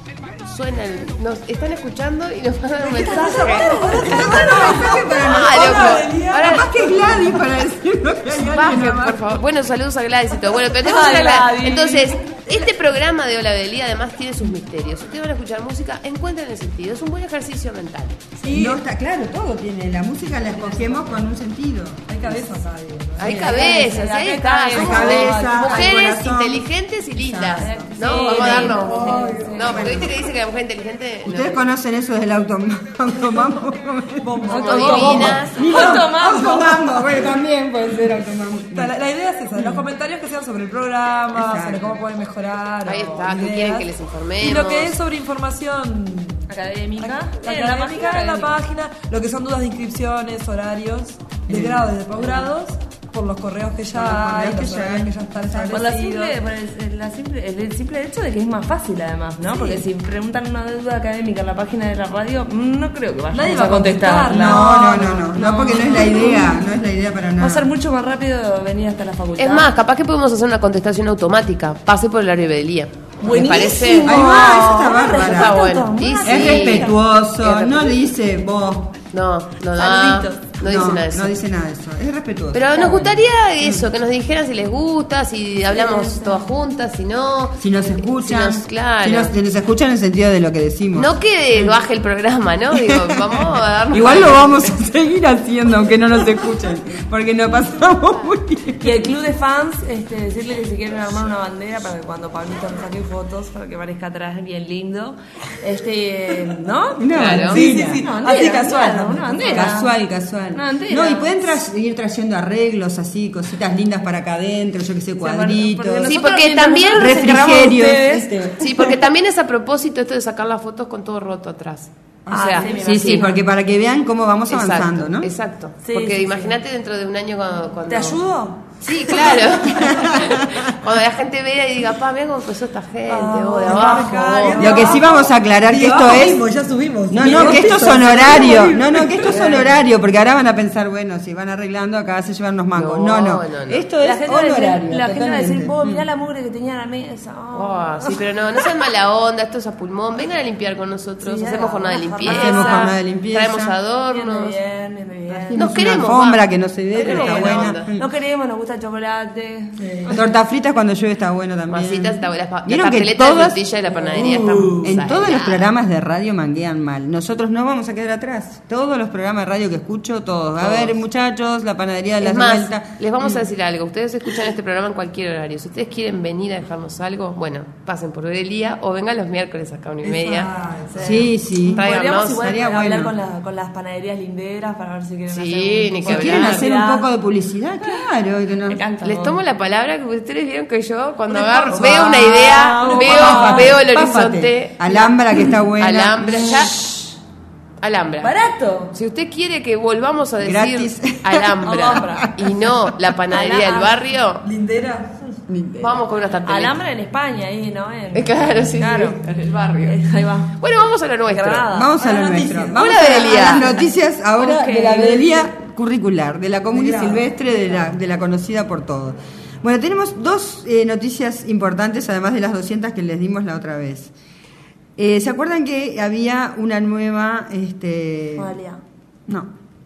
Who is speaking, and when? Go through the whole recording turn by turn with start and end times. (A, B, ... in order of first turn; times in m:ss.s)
0:00.4-0:06.7 A
0:02.8-0:07.4 B
0:03.1-0:04.1 C
0:04.0-0:09.2 D
0:08.4-0:18.3 A
0:10.8-0:12.2 C
0:18.4-0:18.8 B
0:18.5-0:22.5 D
0:20.6-0:21.0 C
0:22.1-0:23.6 B
0:23.2-0:31.6 A
0:23.2-0:23.8 D
0:23.4-0:26.1 C
0:24.7-0:30.3 D
0:27.6-0:30.0 C
0:28.1-0:29.5 B
0:31.2-0:39.0 D
0:34.2-0:37.3 B
0:34.5-0:35.6 A
0:34.5-0:36.5 C
0:38.7-0:43.9 B
0:39.5-0:39.8 D
0:41.3-0:42.0 D
0:42.8-0:45.0 A
0:44.4-0:46.5 B
0:46.5-0:48.5 C
0:47.0-0:56.4 B
0:51.5-0:52.3 D
0:53.9-0:55.9 D
0:55.7-1:04.7 C
0:59.5-0:59.8 D
1:03.3-1:06.5 B
1:04.3-1:07.7 D
1:05.6-1:06.5 C
1:07.4-1:09.7 C
1:09.4-1:16.9 A
1:13.2-1:17.0 C
1:14.0-1:15.7 D
1:16.2-1:19.0 D
1:17.4-1:17.8 A
1:19.1-1:21.4 A
1:19.8-1:20.5 C
1:20.6-1:23.9 D
1:22.5-1:29.3 A
1:25.7-1:26.5 C
1:27.6-1:31.8 D
1:31.0-1:34.8 A
1:32.7-1:39.0 D
1:38.8-1:50.0 C
1:47.0-1:48.1 D
1:47.1-1:47.6 A
1:47.2-1:49.7 B
1:49.5-1:56.2 D
1:50.5-1:51.4 C
1:55.2-1:58.3 C
1:56.0-1:57.3 A
1:57.0-1:58.7 D
1:58.6-2:03.3 A
2:02.3-2:02.7 B
2:02.3-2:03.4 C
2:02.7-2:05.3 D
2:04.5-2:08.2 A
2:05.8-2:06.6 C
2:07.9-2:08.7 C
2:08.8-2:14.9 A
2:09.8-2:10.6 D
2:13.1-2:14.9 C
2:13.1-2:19.5 B
2:14.6-2:16.5 D
2:17.1-2:26.0 D
2:19.3-2:19.7 C
2:22.7-2:23.8 A
2:24.0-2:28.2 C
2:27.5-2:34.6 A
2:31.2-2:32.9 C
2:32.2-2:33.8 D
2:34.1-2:35.7 C
2:35.5-2:38.1 D
2:35.6-2:36.4 A
2:36.9-2:37.9 A
2:37.0-2:40.3 C
2:39.8-2:40.1 B
2:40.1-2:53.4 D
2:41.7-2:45.7 A
2:44.1-2:44.8 B
2:50.6-2:51.0 A
2:52.2-3:00.5 A
3:00.0-3:01.1 B
3:00.9-3:07.1 C
3:01.0-3:03.1 D
3:01.7-3:02.5 A
3:05.3-3:06.7 A
3:06.1-3:08.8 D
3:08.7-3:09.4 C
3:09.0-3:15.2 A
3:11.3-3:13.8 C
3:12.9-3:16.8 D
3:15.8-3:17.1 A
3:17.8-3:18.3 A
3:18.2-3:18.9 C
3:18.9-3:24.4 A
3:20.4-3:22.7 D
3:21.6-3:22.3 C
3:23.3-3:24.0 C
3:24.4-3:25.4 B
3:25.5-3:26.0 D
3:25.8-3:26.8 A
3:26.5-3:29.2 C
3:28.1-3:31.7 A
3:29.8-3:30.5 C
3:31.3-3:31.9 C
3:31.7-3:44.1 D
3:32.0-3:32.8 B
3:32.8-3:33.7 A
3:34.4-3:35.5 C
3:36.7-3:37.3 B
3:45.0-3:48.5 D
3:48.4-3:48.8 C